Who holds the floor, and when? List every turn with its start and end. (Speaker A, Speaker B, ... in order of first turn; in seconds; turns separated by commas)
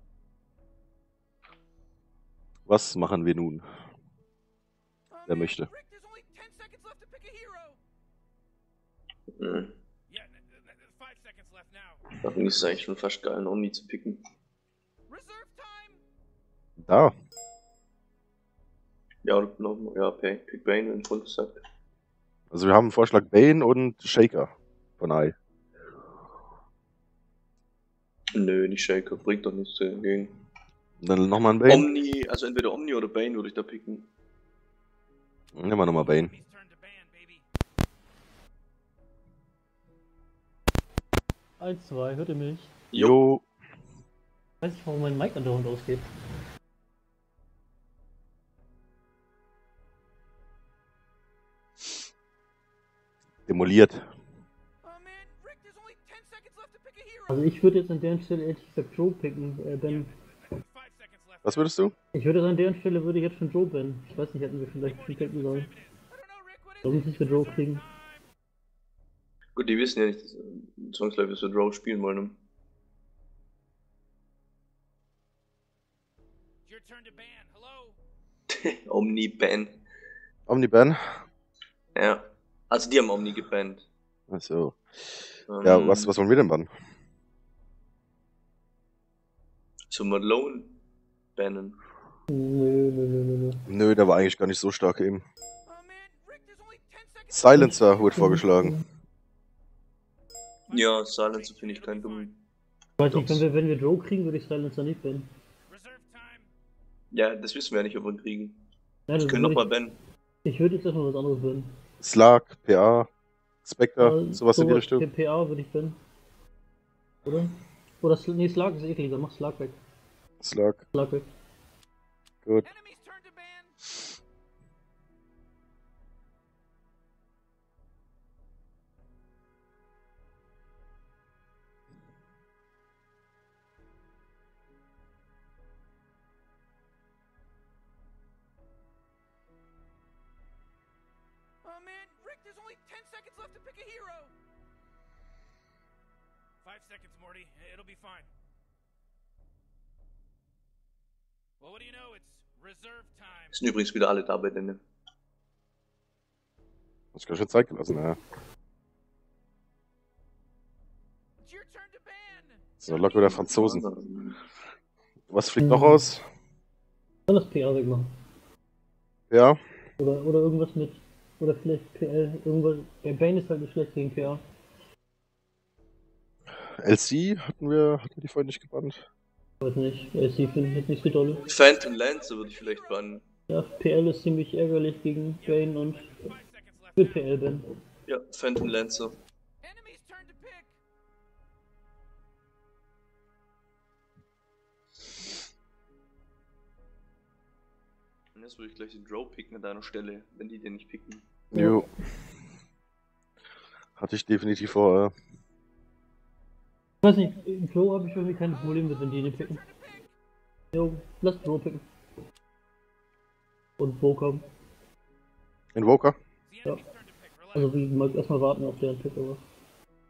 Speaker A: 2.7-3.6, Speaker B: 5.2-7.8, Speaker A: 5.3-5.7, Speaker C: 9.4-9.8, Speaker B: 10.1-12.2, Speaker C: 12.2-14.2, Speaker B: 15.1-16.0, Speaker A: 16.8-17.1, Speaker C: 19.2-21.6, Speaker A: 22.5-25.4, Speaker C: 28.3-30.4, Speaker A: 31.0-31.9, Speaker C: 31.7-34.1, Speaker A: 35.5-36.3, Speaker B: 36.0-37.5, Speaker D: 41.6-42.7, Speaker A: 43.0-43.4, Speaker D: 44.6-46.1, Speaker A: 53.5-54.0, Speaker B: 54.8-57.3, Speaker D: 57.3-60.1, Speaker B: 59.9-61.7, Speaker A: 61.4-61.9, Speaker D: 62.1-65.7, Speaker B: 64.8-68.2, Speaker D: 66.8-67.9, Speaker C: 69.6-72.4, Speaker B: 76.7-78.0, Speaker C: 78.5-79.8, Speaker A: 80.5-81.2, Speaker C: 82.0-83.9, Speaker A: 84.3-84.8, Speaker C: 85.5-86.1, Speaker A: 85.6-86.7, Speaker C: 89.9-90.8, Speaker C: 91.4-91.8, Speaker D: 92.3-93.7, Speaker A: 93.7-95.2, Speaker B: 95.7-97.7, Speaker A: 97.3-98.8, Speaker D: 97.5-98.8, Speaker B: 100.7-102.3, Speaker C: 100.7-102.4, Speaker D: 103.0-105.3, Speaker C: 103.1-103.4, Speaker B: 105.7-106.5, Speaker C: 107.1-108.6, Speaker D: 109.1-109.7, Speaker C: 109.2-110.0, Speaker D: 110.5-111.8, Speaker A: 112.0-113.1, Speaker A: 113.7-115.0, Speaker D: 114.0-116.0, Speaker D: 117.3-119.8, Speaker A: 120.4-120.8, Speaker D: 120.9-121.3, Speaker B: 122.6-123.8, Speaker B: 141.6-144.3, Speaker B: 146.6-148.3, Speaker B: 151.6-153.6, Speaker C: 153.5-154.8, Speaker A: 157.2-158.2, Speaker B: 161.4-163.4, Speaker A: 162.8-163.8, Speaker C: 163.3-164.4, Speaker A: 165.3-166.2, Speaker D: 165.6-166.0, Speaker D: 167.3-168.1, Speaker A: 169.3-169.6, Speaker D: 170.0-174.4, Speaker A: 176.8-179.0, Speaker D: 179.6-181.5, Speaker B: 181.3-183.2, Speaker C: 181.5-183.2, Speaker D: 183.5-186.3, Speaker B: 185.4-187.4, Speaker D: 187.0-187.7, Speaker C: 188.1-189.2, Speaker B: 189.6-190.7, Speaker C: 198.3-201.3, Speaker A: 201.5-201.9, Speaker A: 204.0-205.1, Speaker D: 207.0-209.6, Speaker B: 208.5-210.1, Speaker D: 210.7-211.8, Speaker D: 213.8-214.5, Speaker A: 215.8-216.2, Speaker B: 216.5-217.9, Speaker D: 217.6-219.4